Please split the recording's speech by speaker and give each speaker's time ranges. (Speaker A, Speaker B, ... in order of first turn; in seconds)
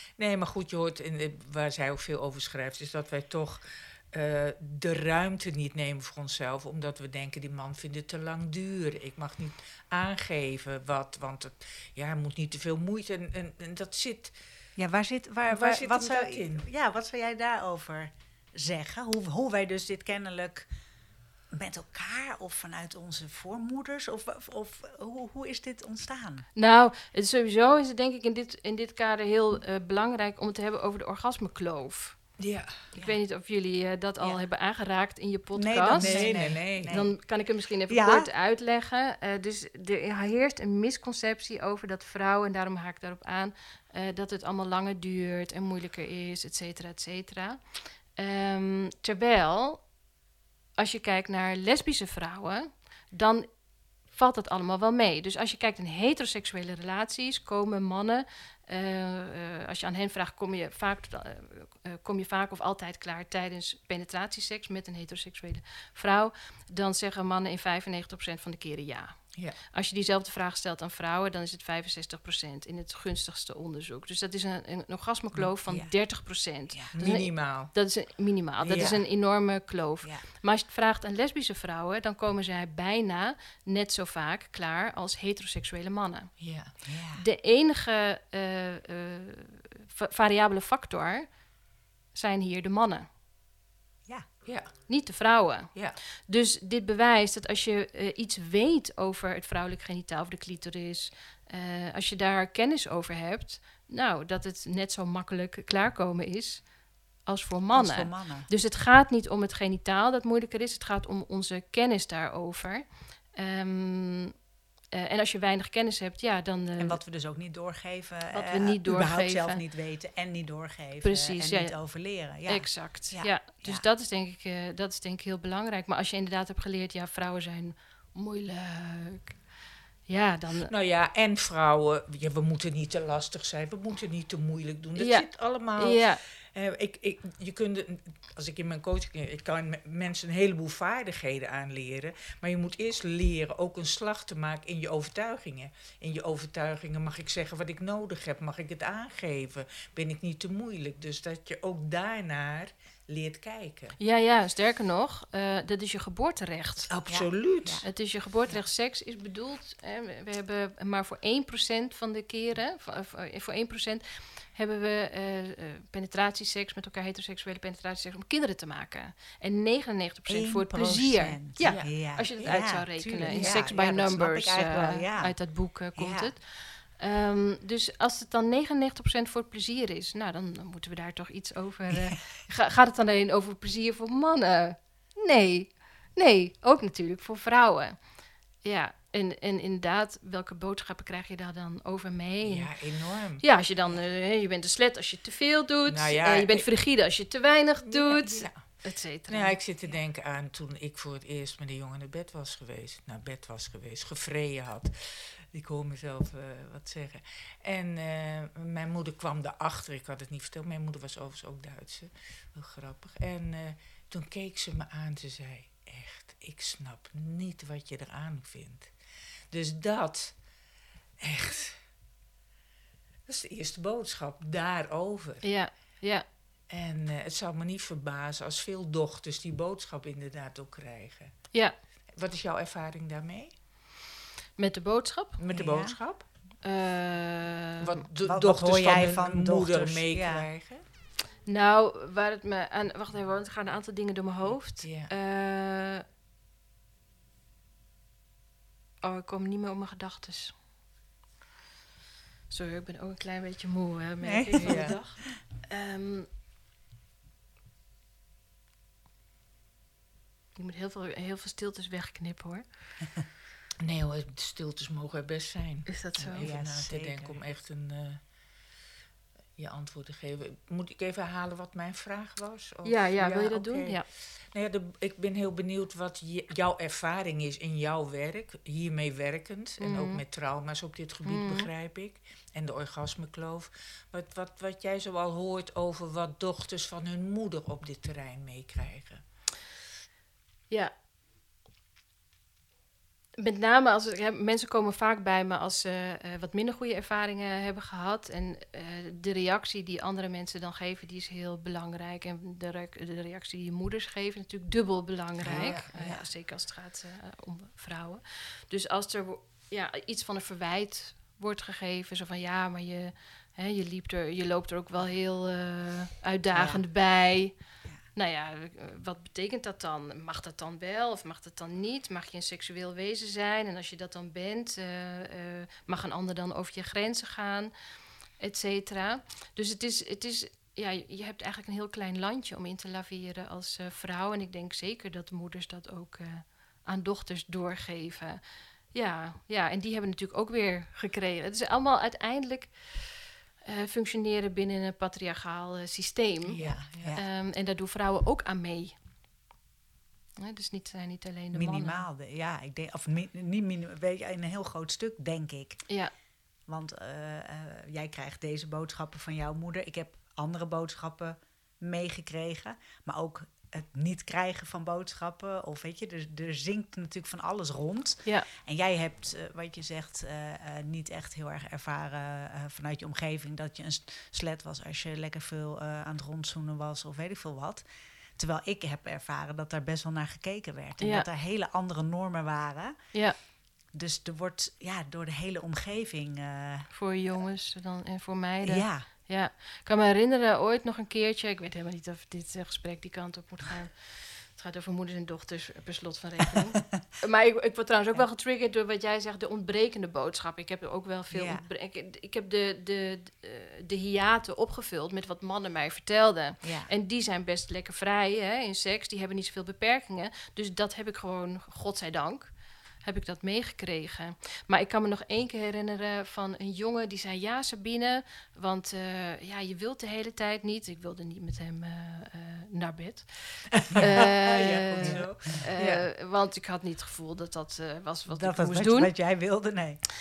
Speaker A: 0.2-14.3, 15.5-16.7, 32.4-32.8, 35.9-37.0, 77.0-77.7, 78.6-79.0, 86.4-86.7, 94.5-94.7, 95.7-96.0, 130.6-154.0, 156.9-157.8, 171.6-171.9, 173.2-173.8, 192.4-193.4, 195.9-196.7, 197.8-218.9, 219.5-220.4, 221.2-221.8, 223.3-225.5, 226.7-231.5, 232.2-233.5, 235.4-236.3, 237.8-240.8, 244.8-245.1, 254.6-255.0, 263.8-268.2, 269.6-289.2, 305.4-305.9, 346.5-347.2, 423.8-426.1
Speaker B: 14.8-20.7, 21.5-26.5, 32.9-33.2, 35.6-37.2, 37.9-38.3, 75.7-75.9, 86.8-87.2, 107.7-108.5, 116.8-123.8, 157.1-157.8, 170.3-176.3, 181.9-182.2, 235.5-236.0, 238.2-240.5, 254.2-255.1, 266.4-267.4, 305.4-306.3, 316.5-316.8, 346.6-347.2, 351.5-355.9, 356.7-377.9, 378.4-383.0, 383.9-386.9, 388.6-389.1, 401.3-401.6, 406.6-406.9, 425.0-425.6, 428.3-430.0
Speaker C: 26.6-32.2, 33.0-49.9, 50.8-53.5, 54.1-69.2, 69.7-86.3, 87.2-91.3, 92.1-93.1, 94.9-106.7, 107.2-114.3, 114.9-117.0, 118.3-119.6, 121.0-121.8, 122.5-129.4, 130.1-130.7, 135.0-136.2, 154.0-156.9, 157.8-188.0, 188.6-192.7, 193.4-199.6, 225.4-226.2, 234.6-235.4, 236.6-237.9, 241.5-246.0, 249.0-250.6, 252.5-256.3, 260.6-262.7, 265.9-266.5, 272.9-274.1, 279.8-280.2, 281.2-281.7, 293.4-317.6, 318.1-327.7, 328.4-338.4, 338.9-346.6, 347.1-348.9, 350.4-352.1, 381.0-381.3, 386.9-429.1